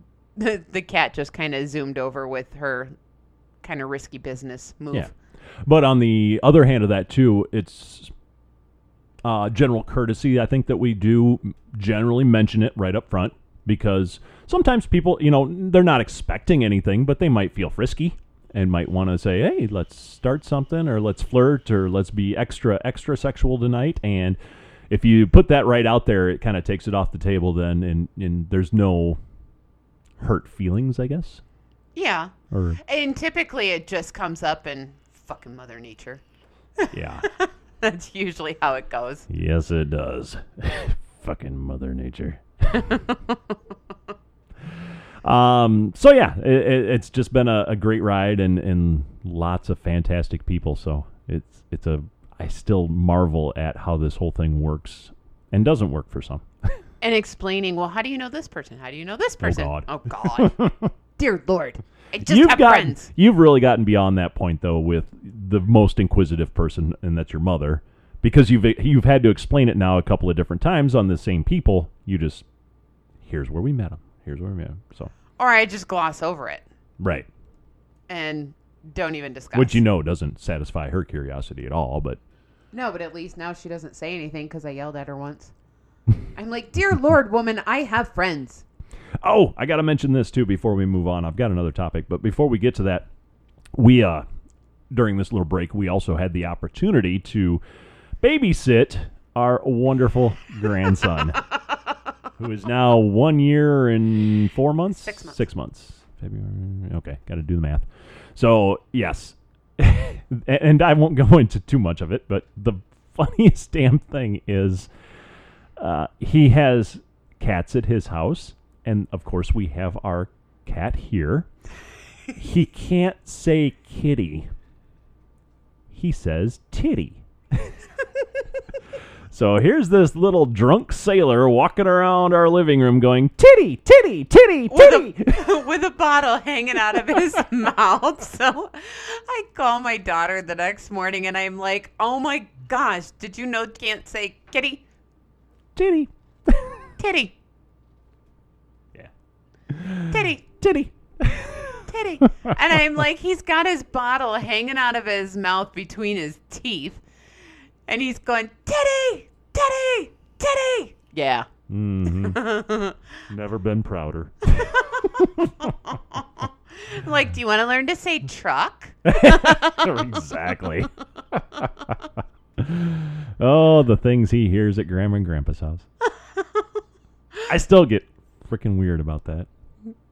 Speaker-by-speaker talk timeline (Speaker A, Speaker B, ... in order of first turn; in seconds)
Speaker A: 0.4-3.0, 3.6-5.1, 31.9-36.2, 36.8-39.3, 42.8-43.4, 57.0-60.6, 61.2-63.1, 75.4-76.7, 78.1-79.8, 82.7-85.5, 86.3-88.6, 105.0-105.4, 134.7-144.8, 147.0-147.3, 150.1-150.4, 151.9-157.0, 157.9-161.5, 162.1-163.0, 164.6-170.0, 176.4-176.6
Speaker B: 5.6-8.1, 9.2-24.4, 24.9-29.2, 30.2-31.4, 32.5-32.8, 36.9-37.3, 39.3-43.0, 45.2-56.8, 59.4-60.9, 62.2-72.5, 73.2-75.1, 77.0-77.3, 79.5-82.2, 89.2-93.1, 93.7-94.3, 94.9-97.6, 98.2-101.4, 102.4-114.9, 115.8-121.5, 122.4-124.5, 125.9-127.7, 129.3-135.5, 145.8-146.7, 149.7-151.8, 161.7-162.4, 163.3-165.7, 169.1-171.9, 172.6-175.8, 177.5-179.5